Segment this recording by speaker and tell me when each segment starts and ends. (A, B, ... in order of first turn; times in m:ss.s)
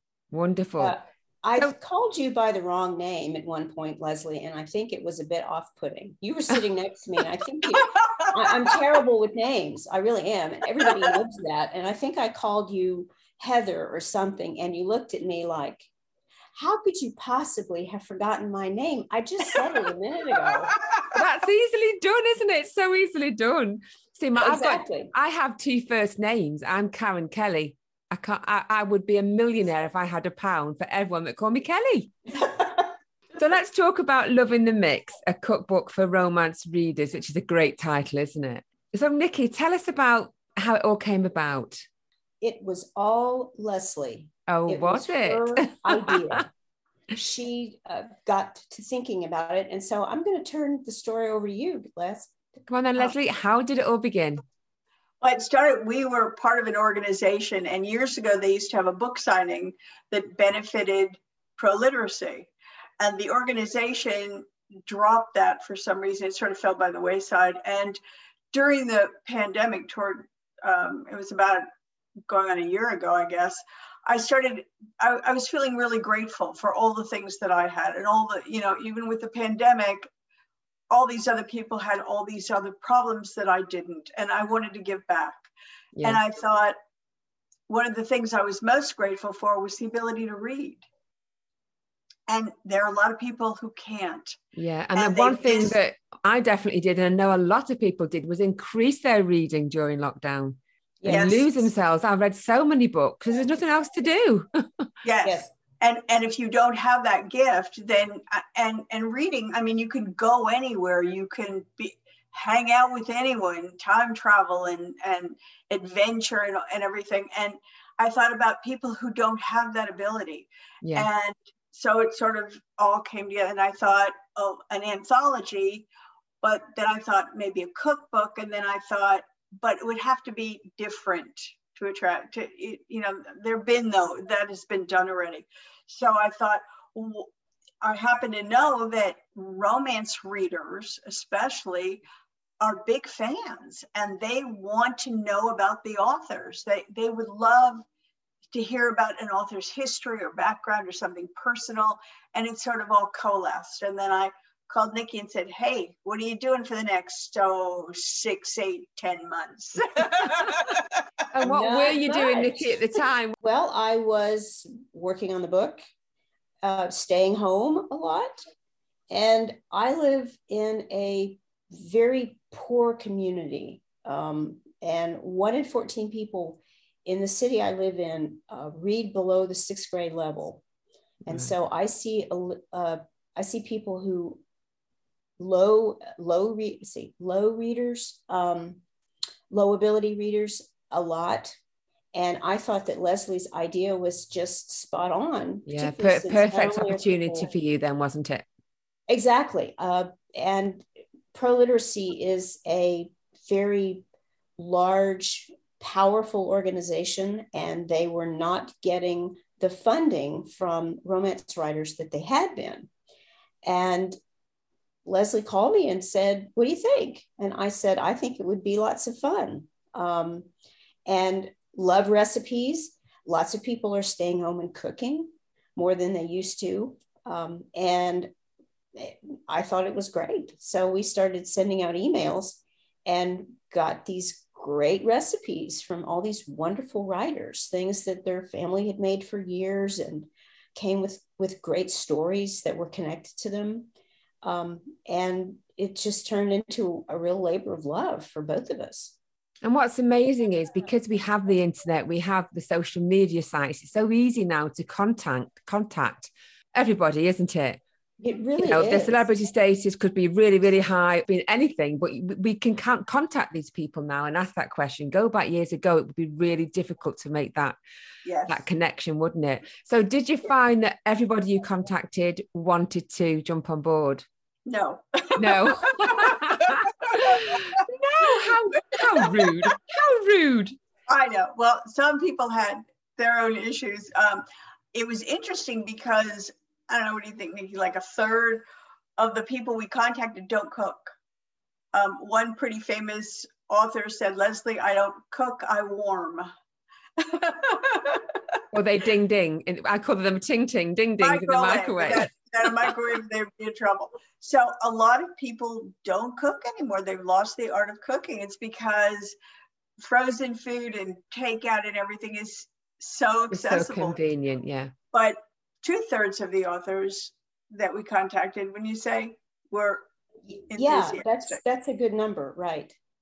0:00.3-0:01.0 A
0:00.8-0:15.9 B
0:07.7-0:08.8 C
0:16.6-0:20.8 B
0:20.8-0:21.2 C
0:21.1-0:32.1 A
0:24.4-0:25.1 B
0:33.4-0:41.9 A
0:42.4-0:46.5 B
0:44.5-0:46.4 A
0:47.1-0:52.4 B
0:52.7-0:54.4 A
0:55.2-1:08.0 C
1:08.5-1:11.6 C
1:12.3-1:20.1 C
1:20.9-1:25.5 C
1:26.0-1:26.8 C
1:27.7-1:30.8 C
1:32.3-1:34.4 C
1:34.6-1:44.5 A
1:35.0-1:35.8 C
1:41.0-1:41.5 B
1:41.1-1:41.4 C
1:45.0-2:05.9 C
1:45.2-1:45.5 B
2:00.8-2:01.1 A
2:06.4-2:17.3 C
2:17.8-2:22.0 C
2:22.6-2:27.8 C
2:28.5-2:40.8 C
2:41.3-2:43.4 A
2:41.4-2:42.8 B
2:43.4-2:45.8 B
2:46.6-2:48.4 B
2:49.1-3:00.6 B
3:01.3-3:04.4 B
3:05.4-3:08.8 B
3:09.5-3:11.6 B
3:12.1-3:17.5 B
3:15.7-3:18.4 A
3:19.1-3:24.0 B
3:24.6-3:32.9 B
3:33.6-3:34.2 B
3:35.0-3:40.5 B
3:41.1-3:48.3 B
3:49.0-4:03.9 B
4:04.4-4:09.2 B
4:09.6-4:17.8 A
4:18.2-4:19.3 B
4:18.6-4:27.8 A
4:28.2-4:28.6 C
4:28.5-4:34.2 A
4:34.7-4:37.7 C
4:35.4-4:40.8 A
4:39.1-4:39.6 C
4:41.1-4:48.6 C
4:49.2-4:51.1 C
4:51.9-4:56.5 C
4:57.2-4:58.4 C
4:58.7-5:02.3 A
5:01.2-5:09.4 C
5:10.0-5:14.2 C
5:13.5-5:14.9 A
5:15.1-5:20.1 C
5:20.7-5:21.6 C
5:20.7-5:23.0 B